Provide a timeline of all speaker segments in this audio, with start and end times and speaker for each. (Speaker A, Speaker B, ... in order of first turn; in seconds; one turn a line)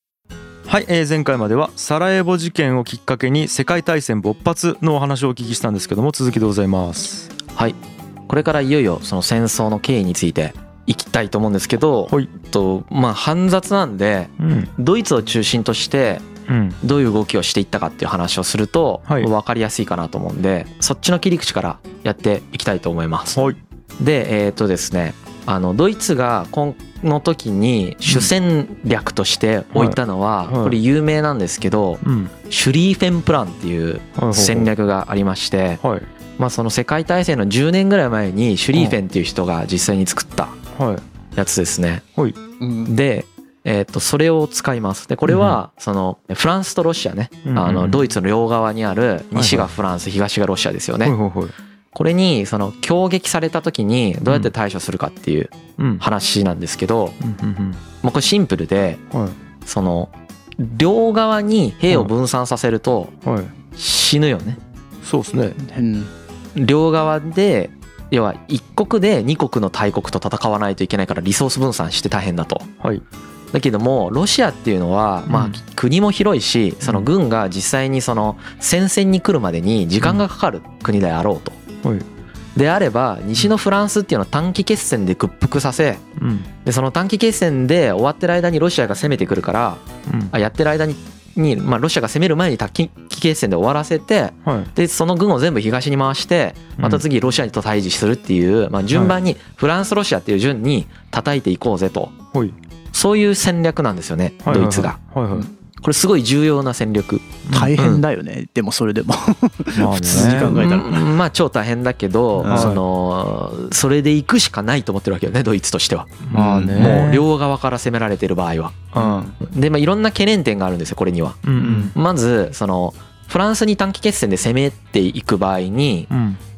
Speaker A: 0.7-7.3
Speaker B: 7.5-16.3
Speaker A: 14.4-14.7
Speaker A: 16.5-16.8
Speaker B: 16.8-23.4
Speaker B: 24.0-35.8
Speaker A: 28.1-28.3
Speaker A: 29.7-30.8
Speaker A: 32.0-32.3
Speaker A: 34.2-34.7
Speaker A: 35.8-36.1
Speaker B: 36.4-40.6
Speaker A: 40.7-41.0
Speaker B: 41.4-42.0
Speaker C: 42.6-42.9
Speaker B: 42.8-51.2
Speaker A: 45.3-45.6
Speaker A: 47.5-48.1
Speaker A: 49.3-49.7
Speaker A: 51.0-51.5
Speaker B: 51.9-57.2
Speaker A: 54.3-54.5
Speaker A: 55.8-56.0
Speaker A: 57.2-57.8
Speaker B: 58.0-59.0
Speaker A: 59.1-59.4
Speaker B: 59.6-63.1
Speaker A: 63.2-63.5
Speaker B: 63.8-64.6
Speaker A: 65.0-65.6
Speaker C: 65.6-66.1
Speaker B: 66.5-72.7
Speaker B: 73.5-81.6
Speaker A: 75.3-75.6
Speaker A: 76.8-77.1
Speaker B: 82.5-86.0
Speaker A: 86.2-86.5
Speaker B: 86.6-102.2
Speaker A: 90.1-90.3
Speaker A: 94.5-94.7
Speaker A: 96.8-97.1
Speaker A: 98.9-99.2
Speaker B: 102.9-105.0
Speaker A: 104.4-105.5
Speaker B: 105.8-108.0
Speaker A: 107.5-107.8
Speaker C: 107.5-111.1
Speaker A: 109.8-110.7
Speaker B: 110.1-126.1
Speaker C: 112.4-112.8
Speaker A: 112.5-112.8
Speaker A: 116.2-117.3
Speaker C: 116.3-116.9
Speaker A: 118.9-119.3
Speaker C: 119.0-119.3
Speaker A: 121.5-121.9
Speaker C: 121.6-121.9
Speaker A: 126.1-126.4